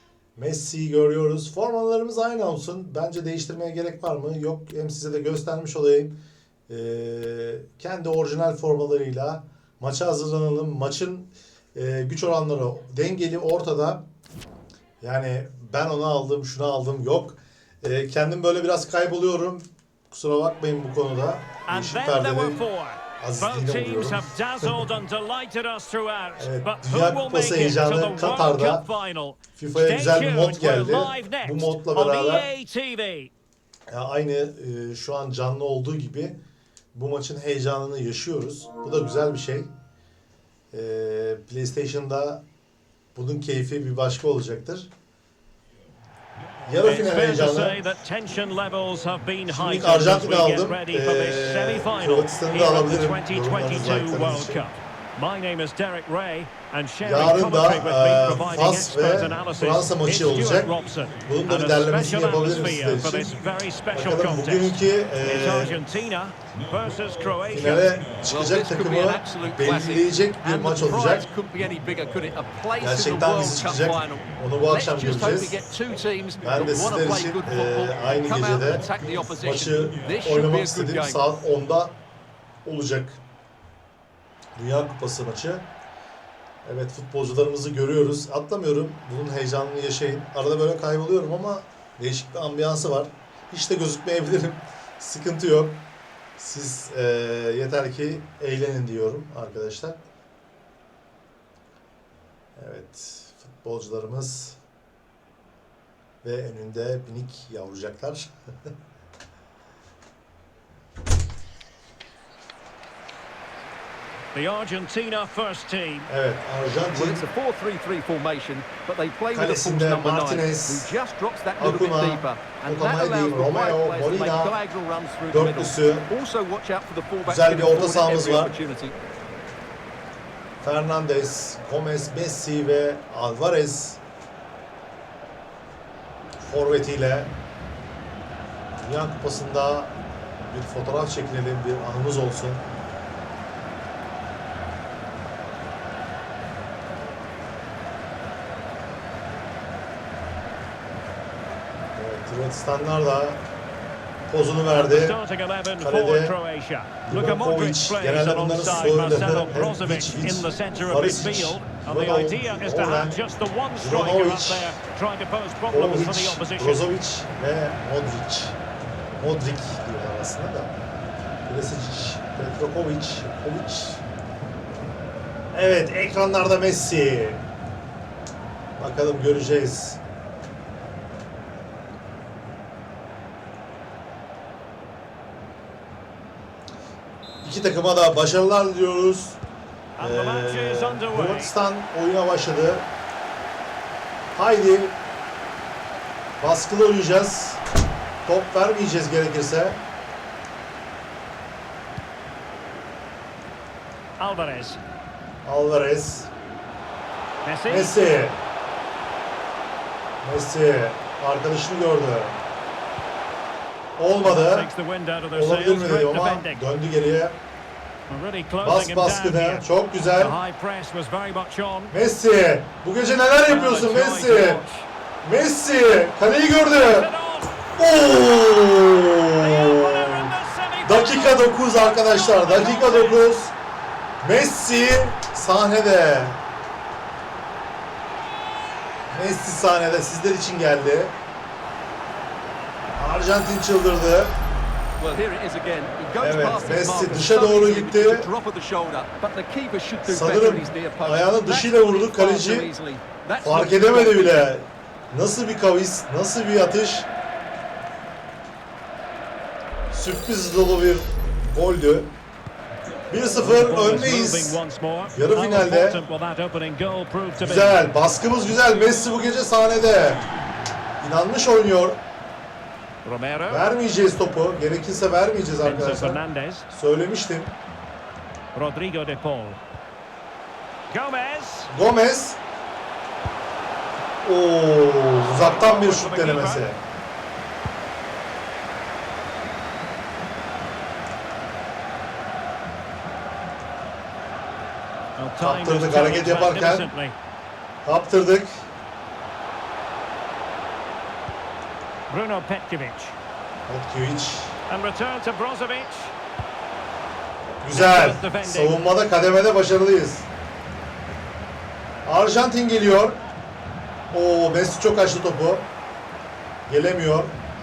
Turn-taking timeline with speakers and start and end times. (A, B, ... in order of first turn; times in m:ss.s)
0:00.4-0:06.2 A
0:06.7-0:14.0 A
0:15.0-0:22.6 A
0:21.7-0:33.3 B
0:23.2-0:24.8 A
0:26.4-0:28.8 A
0:29.6-0:32.5 A
0:33.9-0:36.4 A
0:36.9-0:39.7 A
0:40.7-0:42.4 A
0:43.2-0:44.9 A
0:46.7-0:47.8 A
0:46.8-1:07.9 B
0:49.5-0:54.6 A
0:57.0-1:00.7 A
1:01.2-1:03.4 A
1:03.9-1:05.8 A
1:07.5-1:11.3 A
1:08.2-1:21.2 C
1:12.8-1:15.6 A
1:16.4-1:18.9 A
1:19.4-1:22.0 A
1:22.6-1:23.2 A
1:24.6-1:25.7 A
1:26.6-1:35.8 A
1:36.4-1:40.0 A
1:42.6-1:44.6 A
1:46.2-1:48.3 A
1:54.3-1:56.1 B
1:56.1-1:57.2 A
1:56.9-2:09.0 C
1:59.3-2:00.9 A
2:01.6-2:04.6 A
2:05.3-2:06.1 A
2:07.2-2:08.5 A
2:10.6-2:14.0 A
2:16.4-2:17.3 A
2:18.8-2:22.7 A
2:32.0-2:33.4 A
2:34.3-2:35.2 A
2:34.7-2:46.8 B
2:35.8-2:36.4 A
2:37.1-2:43.2 A
2:43.8-2:44.8 A
2:45.7-2:48.6 A
2:49.2-2:50.7 A
2:51.5-2:54.0 A
2:55.5-2:57.4 A
2:58.8-3:00.0 A
3:07.4-3:09.4 A
3:10.0-3:11.5 B
3:10.0-3:12.9 A
3:14.4-3:15.0 A
3:16.4-3:17.6 A
3:18.2-3:19.8 A
3:24.2-3:24.8 B
3:25.4-3:26.3 A
3:27.4-3:27.9 B
3:27.7-3:28.4 A
3:30.2-3:32.4 A
3:34.0-3:34.7 A
3:34.2-3:36.6 B
3:35.3-3:37.4 A
3:38.1-3:41.9 B
3:38.6-3:40.4 A
3:41.9-3:44.6 A
3:43.5-3:44.9 B
3:45.2-3:47.1 A
3:46.8-3:47.6 B
3:47.7-3:50.3 A
3:49.4-3:53.3 B
3:50.8-3:53.5 A
3:54.2-3:56.4 A
3:59.1-4:01.2 A
4:03.0-4:04.3 A
4:05.0-4:14.5 C
4:06.2-4:08.3 A
4:10.0-4:12.7 A
4:13.4-4:17.1 A
4:19.9-4:22.1 A
4:23.1-4:24.6 A
4:23.4-4:27.8 B
4:25.1-4:26.0 A
4:27.4-4:30.2 A
4:31.0-4:32.0 A
4:33.0-4:33.7 B
4:33.5-4:37.5 A
4:35.6-4:36.7 B
4:38.6-4:39.6 B
4:40.9-4:41.7 B
4:41.7-4:42.4 A
4:44.2-4:46.8 A
4:45.2-4:46.7 B
4:55.2-4:57.2 B
4:55.4-4:56.9 A
4:57.8-4:58.5 A
5:02.1-5:03.2 B
5:03.7-5:04.6 A
5:04.7-5:06.1 B
5:07.6-5:10.3 A
5:07.7-5:08.8 B
5:12.0-5:13.2 A
5:14.1-5:15.7 A
5:16.7-5:17.4 A